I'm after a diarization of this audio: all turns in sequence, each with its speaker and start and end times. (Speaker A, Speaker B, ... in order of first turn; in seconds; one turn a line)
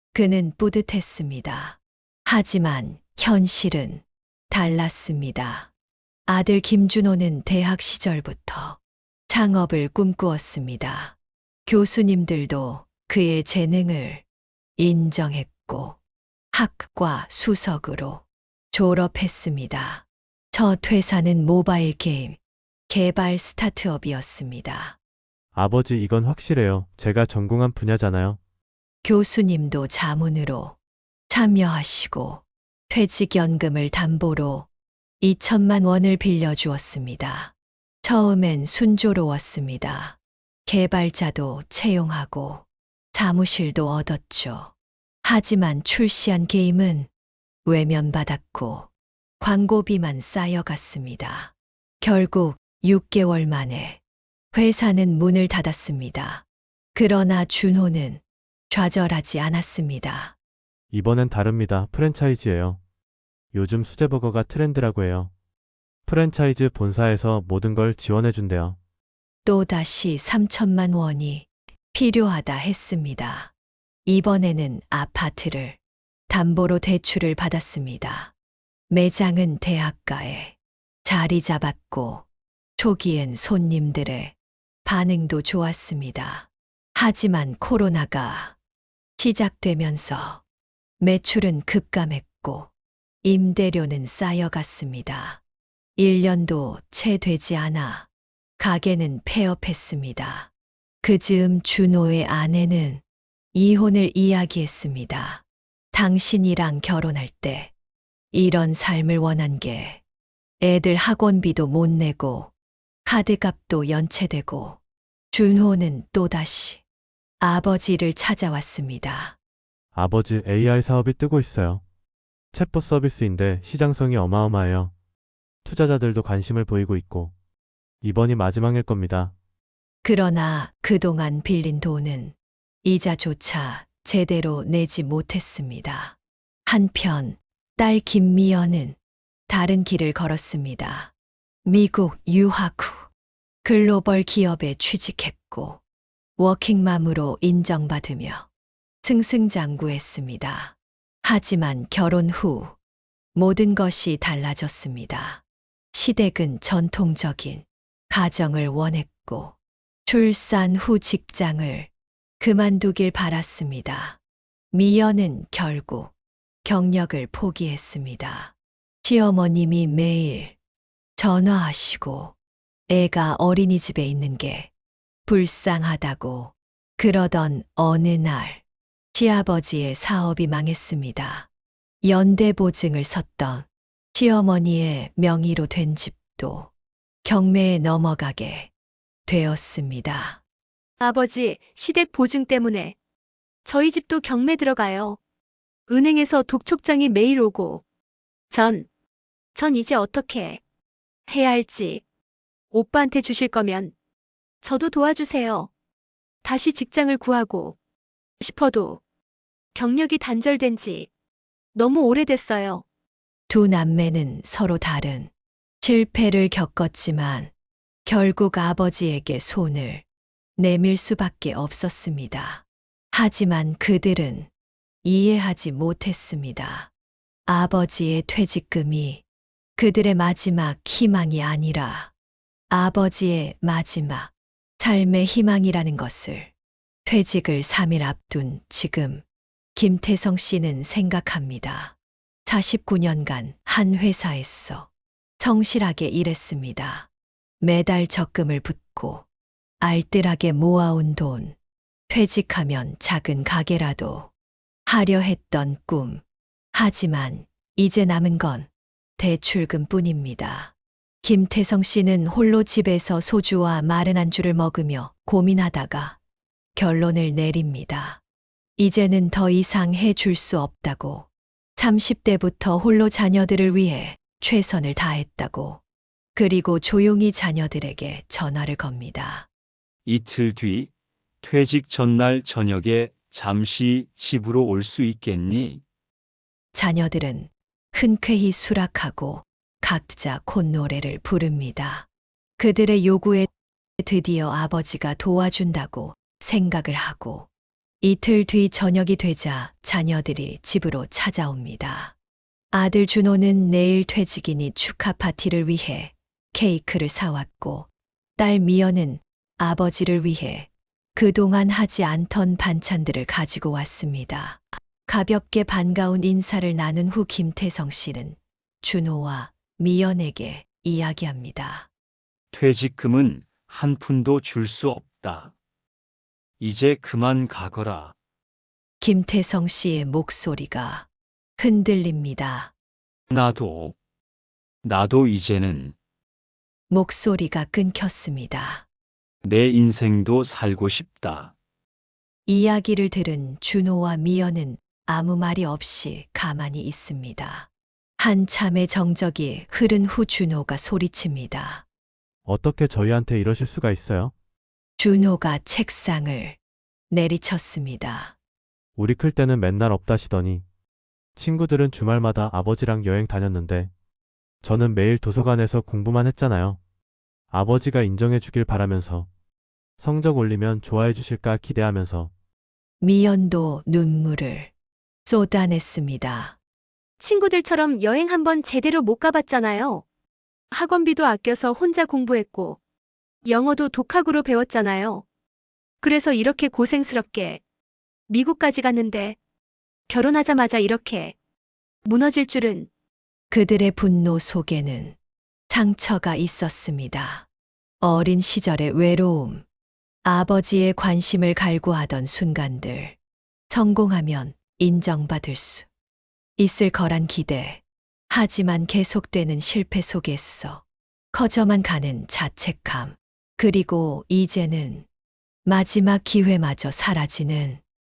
Speaker A: 0.1-5.7
Speaker A: 6.3-14.2
Speaker A: 14.8-16.0
Speaker A: 16.5-25.0
Speaker B: 25.5-28.4
Speaker A: 29.0-30.8
Speaker A: 31.3-34.7
Speaker A: 35.2-44.7
Speaker A: 45.2-47.1
Speaker A: 47.6-54.0
Speaker A: 54.5-60.4
Speaker B: 60.9-62.8
Speaker B: 63.5-65.3
Speaker B: 66.1-68.8
Speaker A: 69.5-73.5
Speaker A: 74.0-78.3
Speaker A: 78.9-88.6
Speaker A: 89.2-90.4
Speaker A: 91.0-92.7
Speaker A: 93.2-95.4
Speaker A: 96.0-98.1
Speaker A: 98.6-100.5
Speaker A: 101.0-103.0
Speaker A: 103.5-107.7
Speaker A: 108.3-110.0
Speaker A: 110.6-112.5
Speaker A: 113.0-114.8
Speaker A: 115.3-116.8
Speaker A: 117.4-119.4
Speaker B: 119.9-121.8
Speaker B: 122.5-124.9
Speaker B: 125.7-127.3
Speaker B: 128.0-129.3
Speaker A: 130.0-141.1
Speaker A: 141.7-143.1
Speaker A: 143.6-145.8
Speaker A: 146.4-148.5
Speaker A: 149.0-152.8
Speaker A: 153.3-164.2
Speaker A: 164.7-166.1
Speaker A: 166.6-170.6
Speaker A: 171.2-172.4
Speaker A: 172.9-174.7
Speaker A: 175.3-181.5
Speaker A: 182.0-186.7
Speaker A: 187.2-188.7
Speaker A: 189.3-190.4
Speaker C: 191.0-193.0
Speaker C: 193.7-195.2
Speaker C: 195.9-197.8
Speaker C: 198.5-198.9
Speaker C: 199.6-200.6
Speaker C: 201.3-202.0
Speaker C: 202.7-203.9
Speaker C: 204.6-205.7
Speaker C: 206.4-207.8
Speaker C: 208.4-209.0
Speaker C: 209.7-211.1
Speaker C: 211.7-212.8
Speaker A: 213.5-217.5
Speaker A: 218.1-220.1
Speaker A: 220.6-224.5
Speaker A: 225.0-226.9
Speaker A: 227.5-229.2
Speaker A: 229.8-232.1
Speaker A: 232.7-236.5
Speaker A: 237.1-239.2
Speaker A: 239.8-247.1
Speaker A: 247.6-249.3
Speaker A: 249.8-251.6
Speaker A: 252.1-254.3
Speaker A: 254.9-266.2
Speaker A: 266.8-268.2
Speaker A: 268.8-275.8
Speaker A: 276.4-279.5
Speaker D: 280.1-280.9
Speaker D: 281.4-285.8
Speaker A: 286.7-297.5
Speaker A: 298.0-302.1
Speaker A: 302.7-321.9
Speaker D: 322.5-325.5
Speaker D: 326.6-328.1
Speaker A: 329.0-332.7
Speaker D: 333.3-334.0
Speaker D: 334.8-335.9
Speaker A: 336.9-338.9
Speaker D: 339.4-341.5
Speaker A: 342.5-351.9
Speaker B: 352.4-354.3
Speaker A: 355.0-356.6
Speaker A: 357.1-358.4
Speaker B: 359.0-360.6
Speaker B: 361.4-363.9
Speaker B: 364.6-366.8
Speaker B: 367.5-369.3
Speaker B: 370.0-372.3
Speaker A: 373.0-374.7
Speaker A: 375.2-376.6
Speaker C: 377.2-380.0
Speaker C: 380.7-382.8
Speaker C: 383.4-385.2
Speaker C: 386.0-387.6
Speaker C: 388.3-389.4
Speaker C: 390.1-391.4
Speaker C: 392.1-392.9
Speaker A: 393.5-395.2
Speaker A: 395.7-397.5
Speaker A: 398.0-399.6
Speaker A: 400.2-403.2
Speaker A: 403.7-405.9
Speaker A: 406.6-415.1
Speaker A: 415.6-417.8